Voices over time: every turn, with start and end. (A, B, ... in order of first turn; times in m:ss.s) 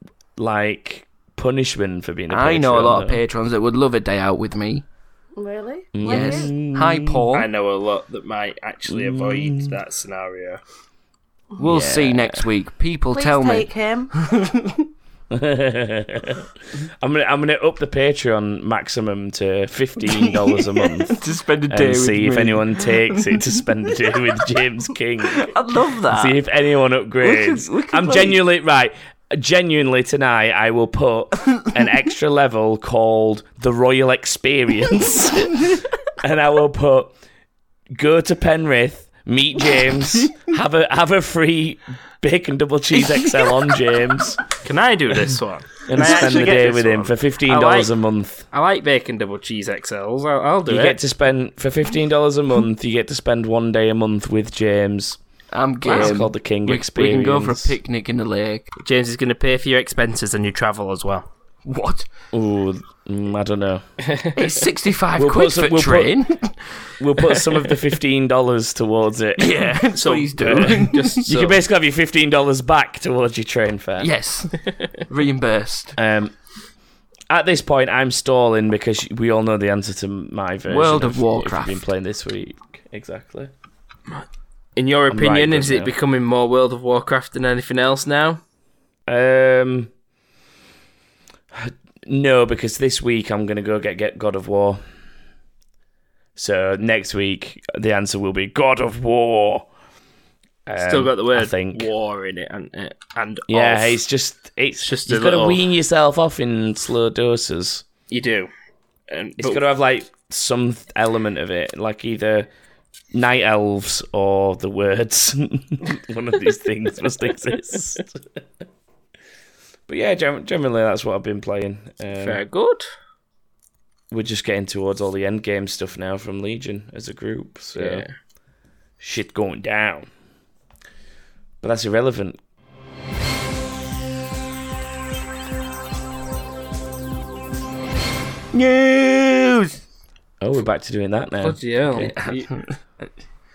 0:00.4-0:03.2 A
0:02.3-0:04.8 B
0:05.4-0:06.5 C
0:05.9-0:07.2 A
0:06.0-0:07.5 B
0:07.3-0:10.6 D
0:08.9-0:09.8 A
0:11.6-0:14.8 B
0:11.6-0:12.4 A
0:13.1-0:14.1 C
0:15.3-0:37.1 A
0:20.2-0:23.4 B
0:25.2-0:26.4 B
0:27.2-0:28.4 B
0:37.9-0:44.4 A
0:43.1-0:43.7 B
0:44.6-0:47.9 D
0:45.9-0:48.5 A
0:48.5-0:51.0 D
0:50.7-0:55.2 A
0:55.5-0:58.7 B
0:55.8-0:56.2 D
0:55.9-0:57.8 A
0:58.8-1:01.3 D
1:01.6-1:02.1 B
1:02.3-1:03.8 A
1:04.4-1:07.5 B
1:05.1-1:06.2 A
1:07.0-1:14.1 A
1:09.4-1:11.3 B
1:09.9-1:11.6 D
1:14.0-1:16.0 B
1:16.0-1:16.3 A
1:17.3-1:23.5 A
1:20.7-1:21.8 B
1:24.8-1:28.4 D
1:25.1-1:25.9 A
1:29.1-1:29.9 A
1:31.5-1:34.8 A
1:36.4-1:39.7 A
1:40.6-1:41.9 A
1:40.8-1:44.0 D
1:43.5-1:47.8 A
1:44.8-1:45.6 D
1:48.1-1:48.5 D
1:49.1-1:49.6 D
1:49.4-1:52.5 A
1:53.1-1:58.2 A
1:59.9-2:02.4 A
2:02.2-2:02.9 D
2:04.1-2:08.1 A
2:07.8-2:08.1 D
2:09.0-2:10.1 A
2:11.6-2:12.4 A
2:18.5-2:19.8 B
2:20.4-2:22.1 A
2:21.4-2:22.5 D
2:22.2-2:23.1 B